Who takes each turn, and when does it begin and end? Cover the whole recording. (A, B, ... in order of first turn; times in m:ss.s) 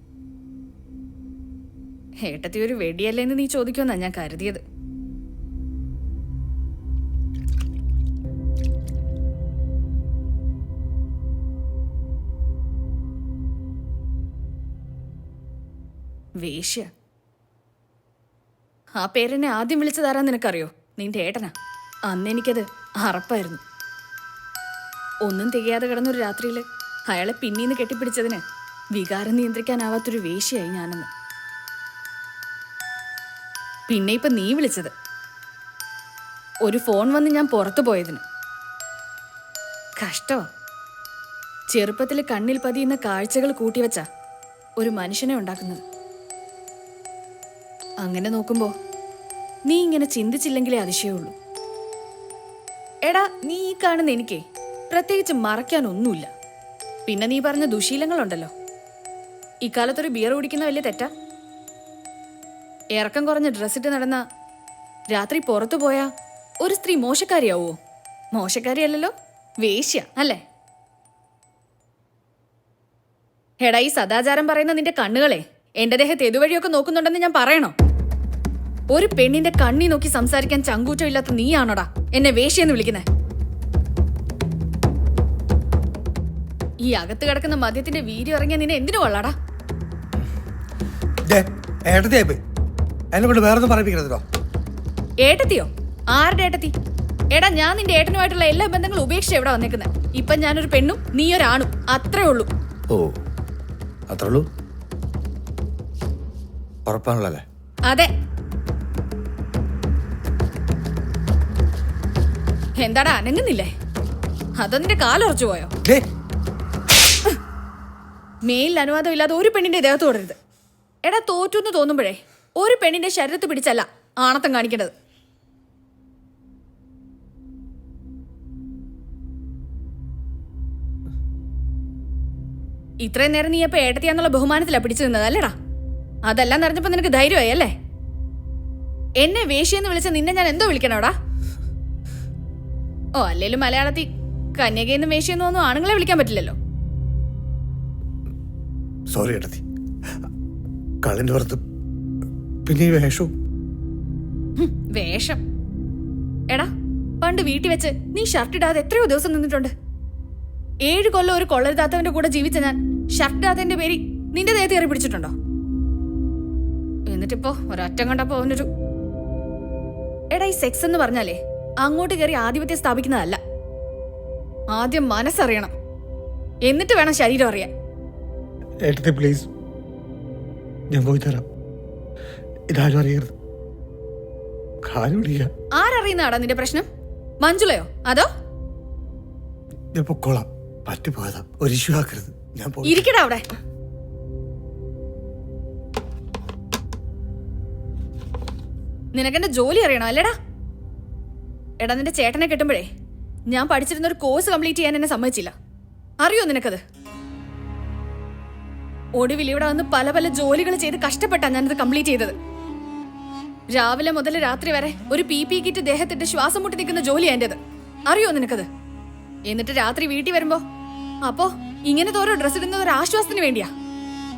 0:02.2-0:04.6 A
0:16.4-0:16.9 A
0:19.0-0:21.5 A
0:22.1-0:23.6 A
0:25.2-0:28.4 A
0:28.9-0:31.1 A
0:33.9-0:34.9 A
0:36.6-0:38.2 A
0:40.0-0:40.4 A
0:41.7-0:44.0 A
0:44.8-0:45.8 A
0:48.0-0:48.7 A
0:49.7-0:51.3 A
0:53.0-0:56.3 A
0:57.1-0:58.5 A
0:59.6-1:01.1 A
1:03.0-1:04.2 A
1:05.1-1:06.1 A
1:06.6-1:07.8 A
1:08.3-1:10.4 A
1:13.6-1:17.7 A
1:18.9-1:23.0 A
1:26.8-1:29.3 A
1:31.3-1:32.4 B
1:33.1-1:34.2 B
1:35.2-1:36.7 A
1:37.3-1:42.5 A
1:44.1-1:44.4 B
1:46.9-1:47.4 B
1:52.8-1:53.7 A
1:54.6-1:55.7 A
1:58.4-2:00.4 A
2:01.0-2:04.9 A
2:13.0-2:15.5 A
2:16.3-2:17.7 A
2:19.2-2:21.1 A
2:23.2-2:26.6 A
2:29.1-2:29.6 B
2:31.0-2:31.6 B
2:32.7-2:33.3 B
2:34.6-2:35.4 A
2:36.5-2:39.7 A
2:40.9-2:45.3 A
2:47.1-2:48.7 A
2:50.3-2:53.4 A
2:54.7-2:55.7 A
2:56.6-2:57.7 A
2:58.8-2:59.5 B
3:00.9-3:01.4 B
3:02.7-3:03.3 B
3:04.8-3:05.5 B
3:05.8-3:06.8 A
3:07.4-3:08.3 A
3:10.0-3:13.1 B
3:12.8-3:13.4 A
3:19.1-3:20.3 A
3:21.8-3:22.9 A
3:23.5-3:25.5 A
3:26.2-3:26.8 A
3:29.2-3:32.4 A
3:33.7-3:38.7 A
3:39.5-3:40.6 A
3:41.3-3:43.7 A